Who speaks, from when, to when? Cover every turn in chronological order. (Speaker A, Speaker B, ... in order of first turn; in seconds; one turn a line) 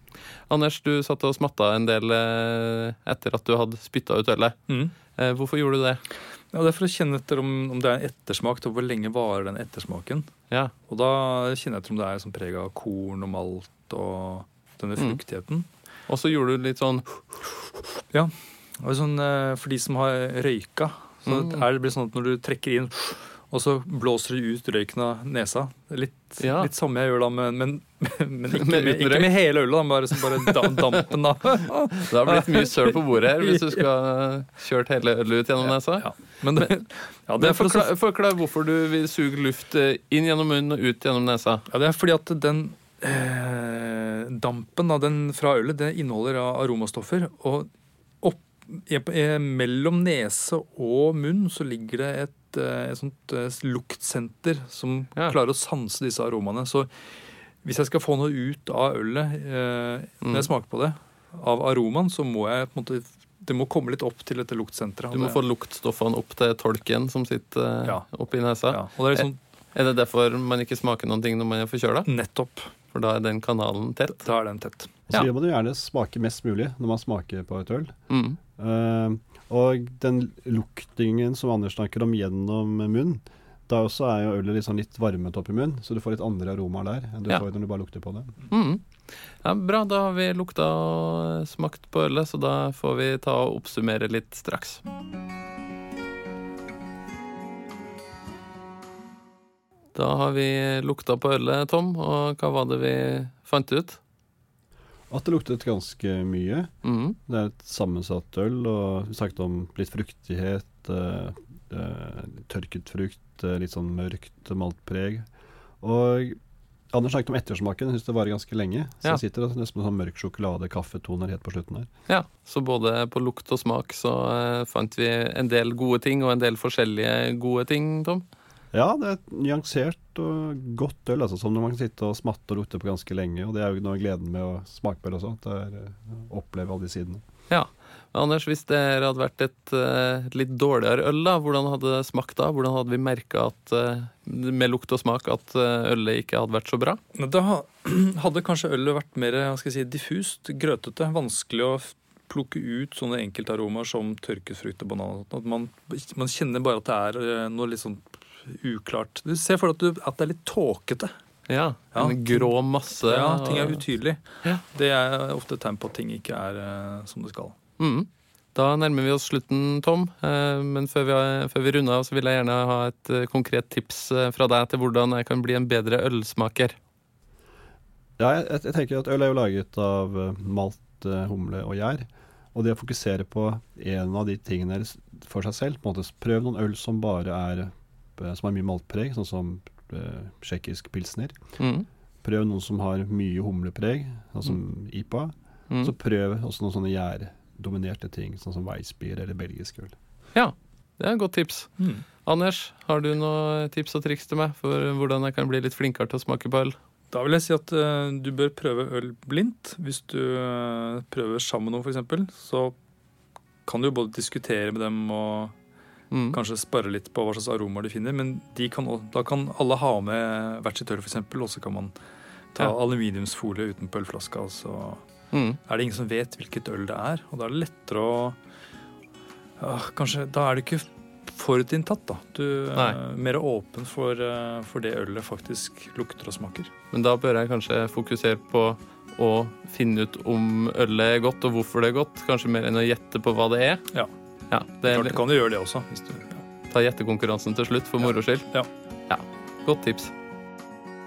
Speaker A: 0.5-4.6
Speaker B: 4.7-5.0
Speaker A: 5.2-6.0
Speaker B: 6.5-10.3
Speaker B: 10.9-15.7
Speaker A: 16.1-17.1
Speaker B: 18.1-33.8
Speaker A: 21.3-21.6
Speaker A: 26.4-26.7
Speaker A: 28.6-29.5
Speaker A: 32.0-36.7
Speaker B: 35.6-37.9
Speaker A: 37.4-41.6
Speaker B: 41.7-47.7
Speaker B: 48.2-56.9
Speaker B: 57.6-65.4
Speaker A: 65.1-72.1
Speaker B: 68.7-69.4
Speaker B: 72.1-72.7
Speaker A: 72.9-74.2
Speaker B: 74.1-75.0
Speaker C: 75.1-77.9
Speaker A: 78.1-78.4
Speaker C: 78.6-88.3
Speaker A: 88.5-88.8
Speaker A: 89.4-94.8
Speaker A: 99.9-104.0
Speaker C: 105.1-106.7
Speaker A: 106.8-107.2
Speaker C: 107.3-115.3
Speaker C: 115.8-116.4
Speaker C: 116.9-121.9
Speaker A: 122.1-128.2
Speaker C: 128.7-137.2
Speaker A: 137.5-147.0
Speaker B: 147.2-161.1
Speaker A: 161.5-163.8
Speaker B: 161.9-167.6
Speaker A: 167.8-176.8
Speaker C: 178.2-191.4
Speaker A: 191.6-191.9
Speaker C: 192.2-199.9
Speaker A: 200.3-201.7
Speaker B: 201.8-202.1
Speaker A: 202.2-206.8
Speaker B: 207.1-212.8
Speaker B: 213.7-215.6
Speaker A: 216.1-216.4
Speaker B: 216.3-222.0
Speaker B: 222.6-225.0
Speaker A: 225.3-225.6
Speaker B: 225.7-228.4
Speaker B: 229.6-236.7
Speaker A: 236.9-243.8
Speaker A: 244.5-245.2
Speaker B: 244.8-246.5
Speaker A: 246.7-248.5
Speaker B: 248.0-248.7
Speaker A: 249.1-250.1